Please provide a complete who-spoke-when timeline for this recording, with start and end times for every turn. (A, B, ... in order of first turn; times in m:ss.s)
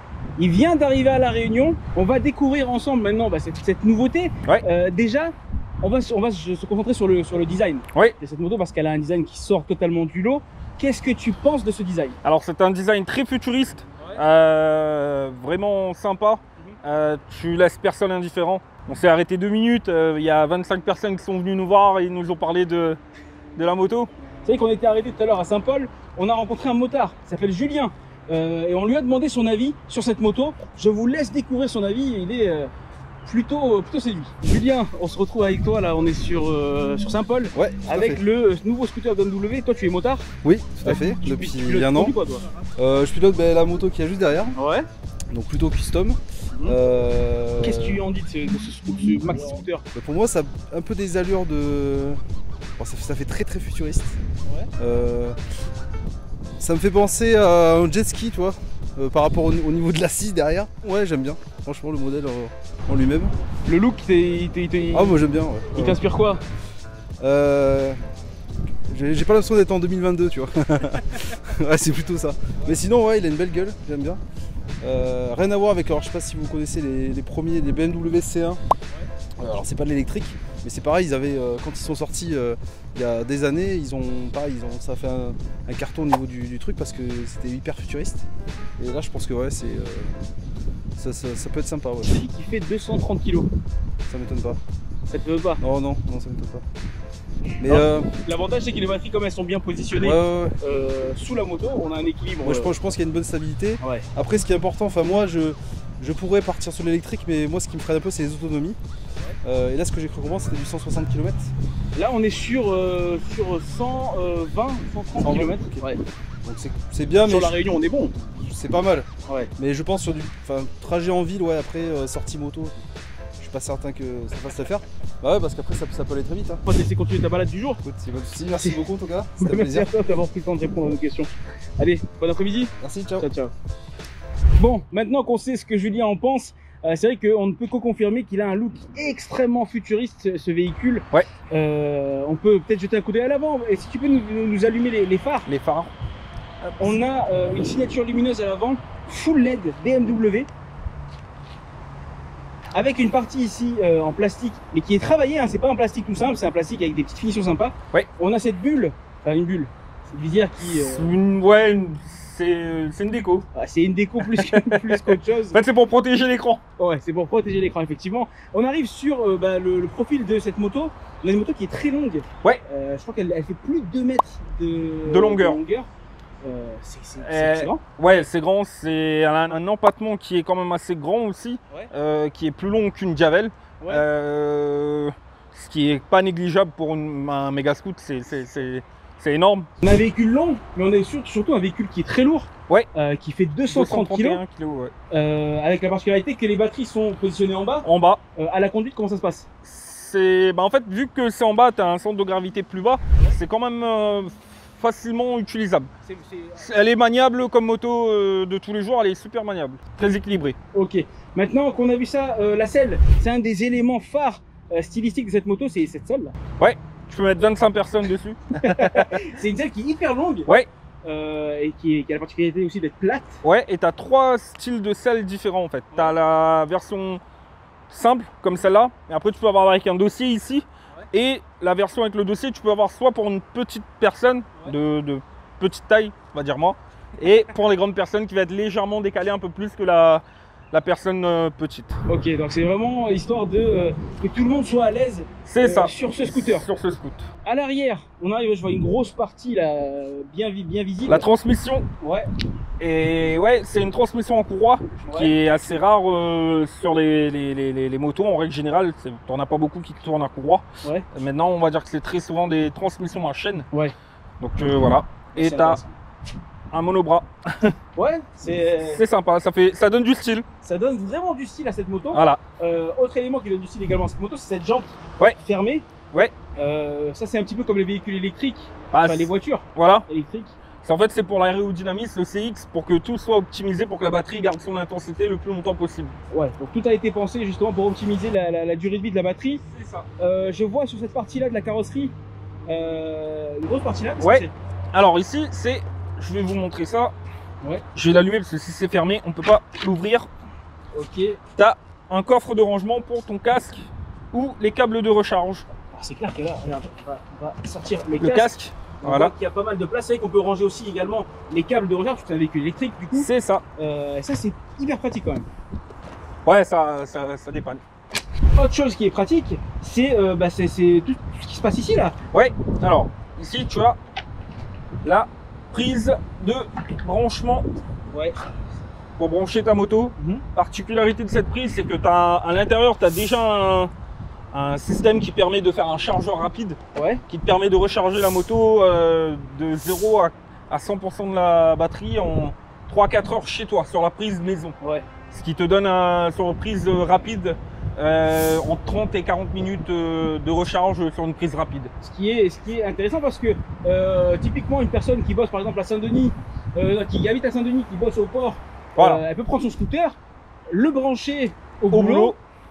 0:00.4-0:12.2 A
0:12.2-0:23.0 B
0:14.0-0:14.2 A
0:23.6-0:24.1 B
0:24.4-0:32.7 A
0:33.2-0:40.3 A
0:37.5-0:38.2 C
0:40.4-0:42.1 C
0:40.8-0:42.5 A
0:42.8-0:44.5 C
0:44.5-0:44.8 A
0:45.3-0:48.0 C
0:47.6-0:49.8 A
0:49.9-0:52.2 C
0:52.8-0:54.2 C
0:54.4-0:54.7 A
0:54.8-0:55.4 C
0:56.6-1:03.3 C
1:03.6-1:05.2 A
1:04.9-1:06.0 C
1:05.7-1:06.4 A
1:07.2-1:08.0 C
1:08.9-1:14.2 C
1:14.8-1:18.6 C
1:19.4-1:28.2 C
1:28.8-1:30.1 C
1:31.0-1:32.1 C
1:32.0-1:33.5 A
1:34.1-1:34.6 C
1:35.1-1:35.6 A
1:35.6-1:36.6 C
1:37.6-1:38.1 C
1:37.6-1:42.7 A
1:40.0-1:40.6 C
1:42.4-1:48.8 C
1:43.8-1:44.1 A
1:49.4-1:51.5 C
1:51.9-1:56.0 A
1:55.2-1:55.9 C
1:56.4-1:57.6 C
1:57.2-1:58.2 A
1:58.2-2:02.8 C
1:59.2-1:59.5 A
2:03.4-2:06.6 C
2:06.6-2:07.8 A
2:07.8-2:09.9 C
2:08.5-2:08.8 A
2:09.4-2:13.5 A
2:12.8-2:13.2 C
2:14.6-2:25.5 A
2:25.5-2:25.9 B
2:26.6-2:30.5 A
2:32.7-2:41.1 A
2:40.6-2:43.4 B
2:43.5-2:45.6 A
2:44.2-2:46.6 B
2:46.8-2:55.9 A
2:55.0-2:55.6 B
2:56.4-2:57.8 A
2:57.2-3:09.7 B
3:03.8-3:04.0 A
3:09.8-3:14.4 A
3:13.7-3:14.9 B
3:15.1-3:19.4 A
3:17.8-3:18.2 B
3:19.6-3:25.9 B
3:26.0-3:26.8 A
3:26.6-3:30.6 B
3:30.7-3:36.3 A
3:36.6-3:39.2 B
3:38.6-3:40.5 A
3:41.0-3:43.4 A
3:43.4-3:47.2 B
3:47.9-4:02.0 B
4:02.1-4:06.6 A
4:05.4-4:07.3 B
4:07.4-4:11.2 A
4:11.1-4:11.9 B
4:12.0-4:12.3 A
4:12.8-4:23.7 B
4:15.0-4:15.3 A
4:24.4-4:25.8 B
4:25.3-4:25.9 A
4:26.7-4:27.7 B
4:27.9-4:29.0 A
4:28.9-4:30.4 B
4:30.6-4:35.9 A
4:32.1-4:32.4 B
4:36.5-4:40.5 A
4:38.9-4:40.0 B
4:40.8-4:46.1 B
4:46.3-4:49.6 A
4:49.6-4:50.1 B
4:50.2-4:52.1 A
4:52.7-4:54.5 A
4:54.2-4:57.1 B
4:57.9-5:00.3 B
5:00.9-5:01.4 A
5:01.6-5:05.7 B
5:05.9-5:15.4 A
5:08.2-5:09.3 B
5:13.1-5:13.6 B
5:16.4-5:17.8 B
5:18.5-5:22.1 A
5:22.3-5:24.0 B
5:25.0-5:27.7 B
5:28.1-5:28.4 A
5:29.2-5:33.9 B
5:30.2-5:30.4 A
5:34.5-5:36.8 B
5:36.9-5:37.2 A
5:37.3-5:44.8 B
5:44.8-5:45.0 A
5:45.3-5:51.9 B
5:52.0-6:00.2 A
5:59.0-5:59.2 B
6:00.7-6:02.3 A
6:01.9-6:02.4 B